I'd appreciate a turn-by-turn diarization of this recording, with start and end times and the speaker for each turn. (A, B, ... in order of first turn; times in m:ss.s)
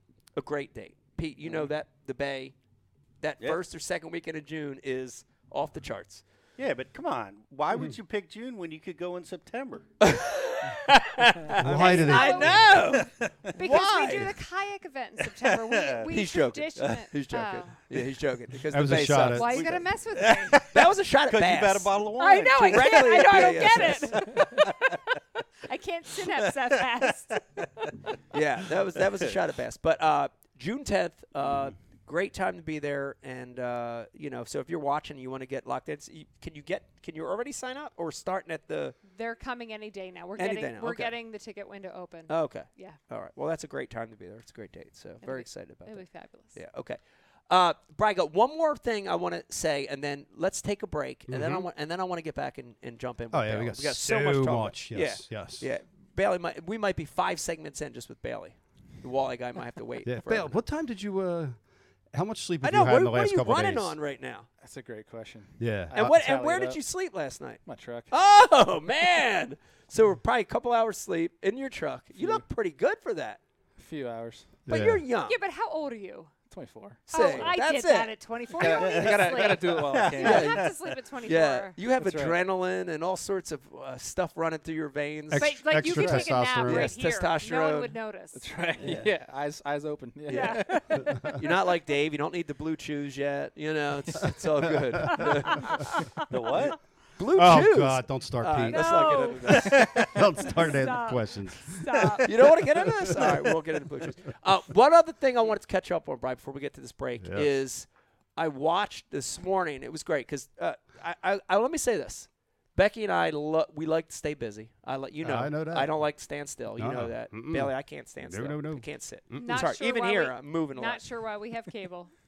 0:00.4-0:02.5 A
0:01.4-0:01.7 B
0:03.2-0:06.2 A
0:06.6-0:09.9 B
0:10.0-0:14.4 A
0:11.6-0:12.7 C
0:11.7-0:13.0 D
0:12.6-0:13.5 B
0:13.6-0:17.8 D
0:15.3-0:16.0 B
0:16.1-0:19.7 A
0:18.7-0:19.9 C
0:18.9-0:20.6 D
0:19.6-0:20.8 B
0:20.6-0:22.0 A
0:21.3-0:24.7 B
0:22.2-0:25.0 D
0:22.5-0:24.6 A
0:25.7-0:27.4 D
0:28.3-0:39.0 A
0:39.1-0:43.0 D
0:40.4-0:41.1 A
0:42.3-0:47.0 A
0:45.2-0:46.6 D
0:47.5-1:00.6 A
0:51.3-0:51.7 C
0:53.3-0:55.7 C
1:00.0-1:01.6 C
1:02.1-1:04.0 C
1:02.6-1:04.5 A
1:04.6-1:06.8 E
1:05.6-1:06.2 C
1:05.9-1:13.4 A
1:07.6-1:08.1 E
1:12.2-1:12.4 E
1:13.8-1:14.6 E
1:14.6-1:15.4 A
1:14.7-1:15.0 C
1:15.2-1:16.3 D
1:16.5-1:17.6 E
1:17.1-1:19.4 A
1:17.1-1:21.8 D
1:18.5-1:20.7 E
1:18.6-1:20.9 B
1:20.2-1:20.6 A
1:21.2-1:27.9 A
1:21.8-1:22.4 E
1:25.3-1:27.0 C
1:25.3-1:28.4 D
1:25.8-1:26.3 E
1:28.3-1:31.4 E
1:28.8-1:29.1 B
1:30.3-1:30.6 A
1:30.3-1:31.2 D
1:31.0-1:31.3 C
1:31.4-1:35.9 A
1:34.6-1:35.6 C
1:35.1-1:36.3 D
1:36.3-1:36.8 B
1:37.2-1:40.0 A
1:37.3-1:43.5 C
1:38.7-1:42.5 D
1:39.6-1:40.2 B
1:42.2-2:01.0 A
1:47.2-1:47.6 C
1:55.2-1:56.0 C
1:56.7-1:59.7 C
1:59.4-2:02.1 D